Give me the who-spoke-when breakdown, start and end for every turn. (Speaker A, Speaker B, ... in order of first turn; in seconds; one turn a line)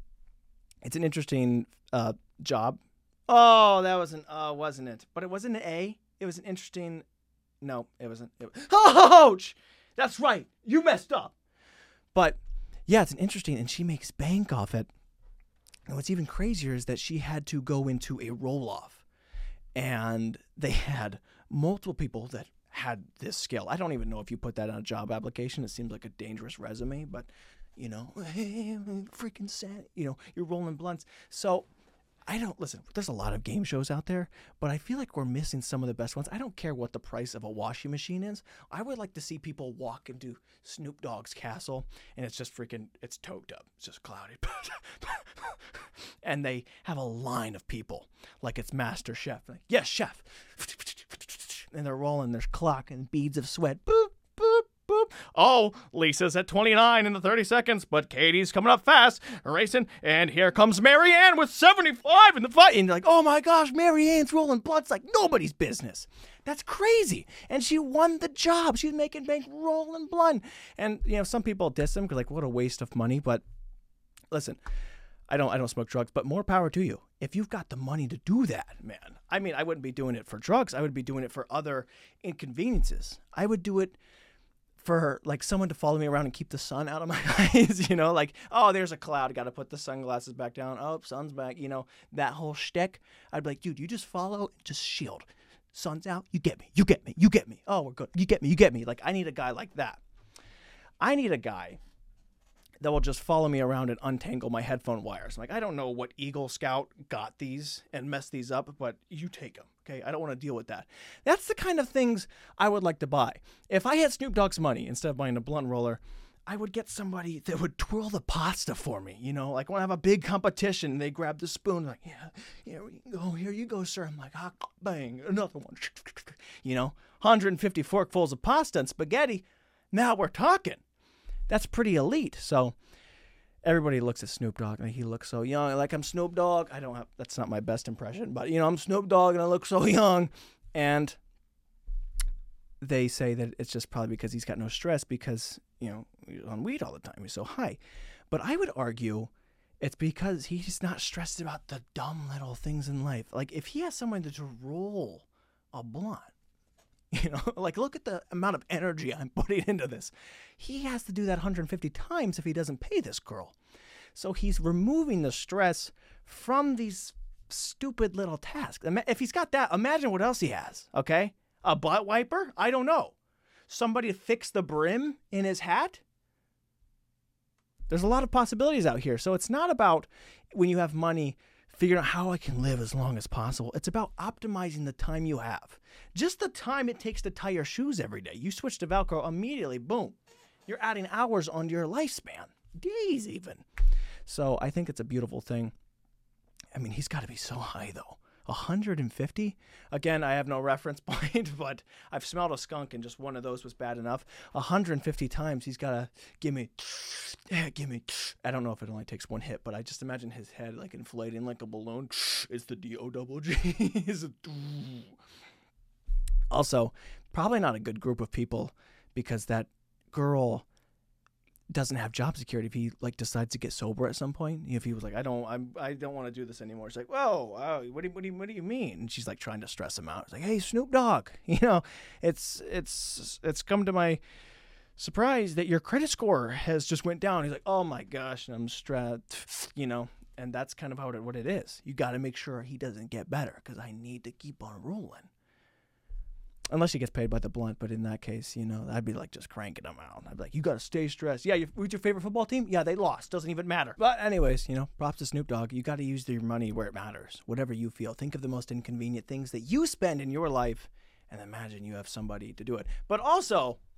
Speaker A: 0.8-7.0
Speaker A: 7.6-11.3
Speaker A: 12.1-14.9
Speaker A: 15.9-19.1
Speaker A: 19.8-31.7
Speaker A: 32.3-73.4
Speaker A: 74.3-74.6
Speaker A: 75.3-84.0
Speaker A: 84.8-100.0
Speaker A: 101.0-101.8
Speaker A: 102.8-130.8
Speaker A: 131.5-132.8
Speaker A: 133.6-141.2
Speaker A: 142.8-147.8
Speaker A: 148.3-156.3
Speaker A: 157.1-163.6
Speaker A: 164.2-173.2
Speaker A: 173.7-176.0
Speaker A: 177.9-193.6
Speaker A: 194.3-195.7
Speaker A: 196.7-215.2
Speaker A: 216.5-220.7
Speaker A: 221.7-234.2
Speaker A: 235.0-245.3
Speaker A: 246.7-263.8